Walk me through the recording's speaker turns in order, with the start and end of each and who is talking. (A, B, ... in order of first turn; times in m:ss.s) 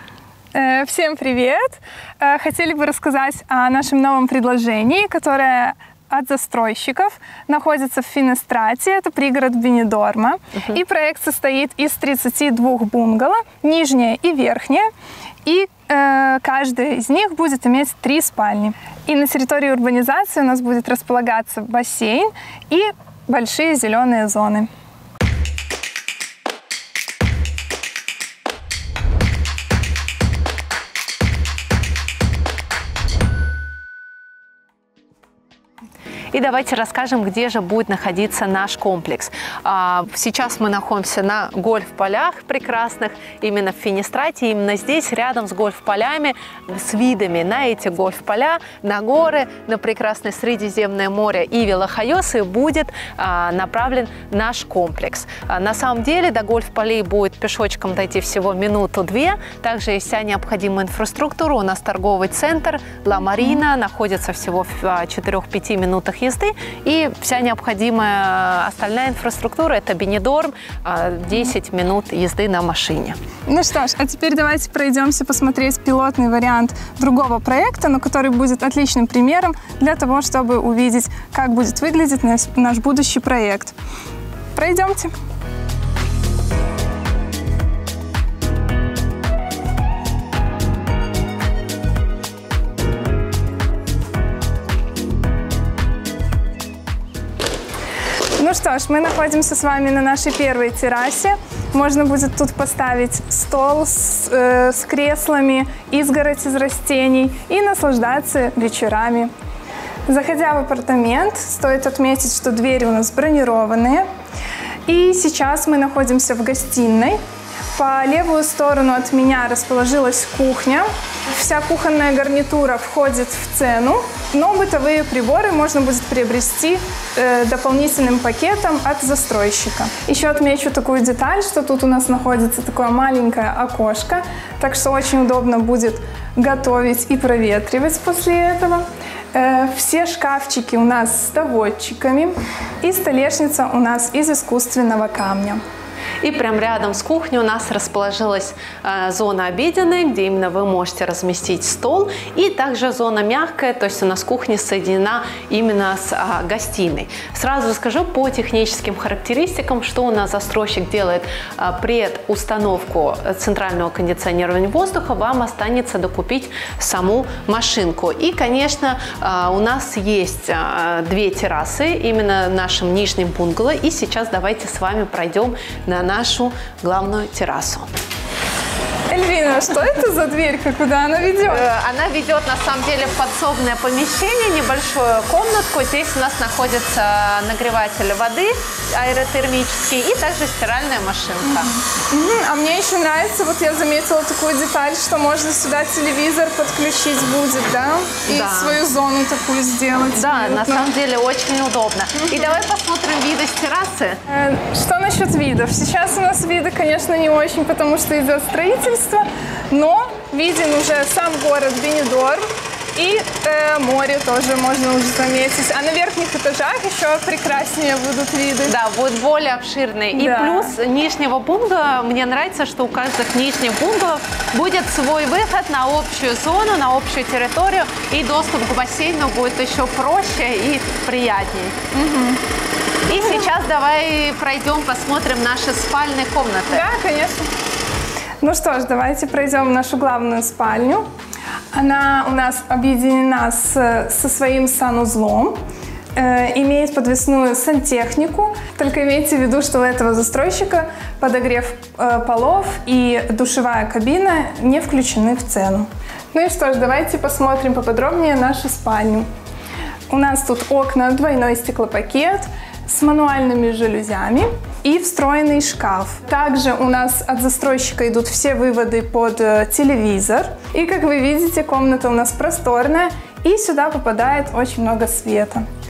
0:00.5-0:14.9 A
0:15.4-0:24.7 A
0:36.3-1:13.2 B
1:13.5-1:23.8 A
1:24.5-1:25.1 A
1:38.4-1:49.3 A
1:50.1-1:54.0 A
1:54.9-1:57.2 A
1:57.8-2:25.6 A
2:26.2-2:57.9 B
2:59.1-3:01.7 A
3:01.5-3:11.7 B
3:11.9-3:20.9 A
3:18.3-3:18.8 B
3:20.2-3:24.2 B
3:24.3-3:38.8 A
3:38.7-3:51.8 B
3:40.1-3:40.7 A
3:51.9-3:52.4 A
3:53.1-3:56.9 B
3:56.7-3:57.4 A
3:58.4-4:01.0 A
4:01.7-4:05.6 A
4:06.2-4:19.3 A
4:20.1-4:35.6 A